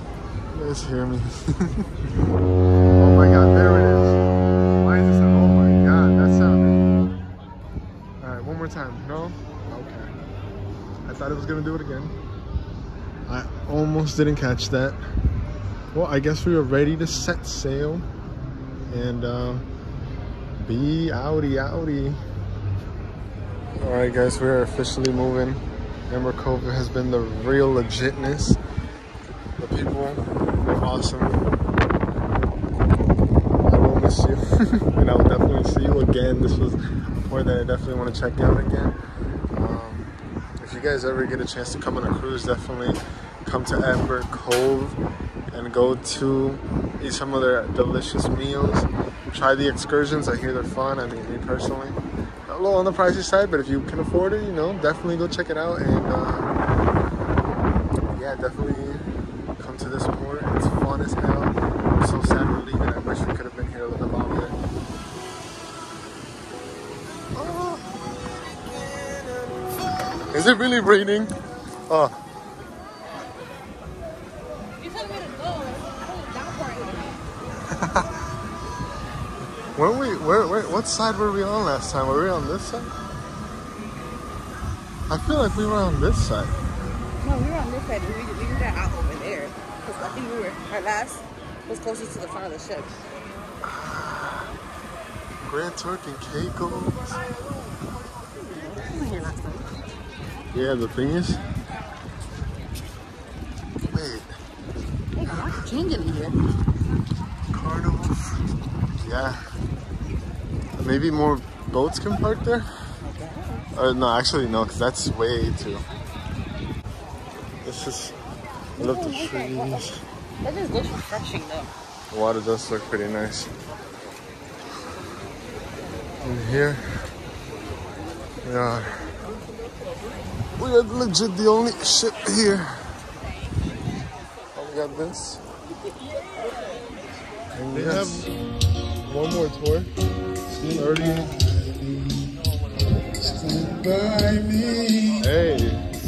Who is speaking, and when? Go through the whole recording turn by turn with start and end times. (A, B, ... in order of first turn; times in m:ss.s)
0:00.5-0:02.0 A
0:02.9-0:04.2 A
0:04.8-0:06.8 A
0:08.2-0:10.1 A
0:11.0-0:12.1 A
0:13.2-0:15.0 A
0:15.9-0:18.0 A
0:18.9-0:19.7 A
0:20.6-0:22.2 A
0:23.8-0:28.6 A
0:29.6-0:31.5 A
0:33.6-0:39.0 A
0:39.5-0:45.0 A
0:45.5-0:56.5 A
0:58.0-0:59.0 A
0:59.6-1:04.6 A
1:07.3-1:07.9 A
1:10.3-1:11.3 A
1:11.9-1:12.2 A
1:14.8-1:17.2 B
1:17.7-1:18.0 A
1:19.8-1:22.9 A
1:25.1-1:26.6 A
1:27.2-1:33.0 B
1:33.6-1:34.5 A
1:35.4-1:37.2 A
1:38.4-1:39.7 B
1:40.5-1:41.4 A
1:43.8-1:44.3 A
1:45.2-1:46.4 B
1:47.5-1:48.4 A
1:49.0-1:49.4 A
1:50.7-1:52.7 A
1:53.0-1:53.7 B
1:53.7-1:55.8 A
1:57.6-1:58.2 A
1:58.8-1:59.9 B
1:58.8-2:00.0 A
2:00.4-2:01.7 B
2:02.1-2:03.5 A
2:06.2-2:06.8 A
2:08.4-2:09.1 A
2:10.5-2:12.8 A
2:14.5-2:15.4 A
2:17.5-2:18.3 A
2:17.7-2:18.3 C
2:19.0-2:19.9 A
2:20.5-2:22.3 C
2:20.6-2:21.2 A
2:23.2-2:25.3 C
2:25.2-2:25.8 A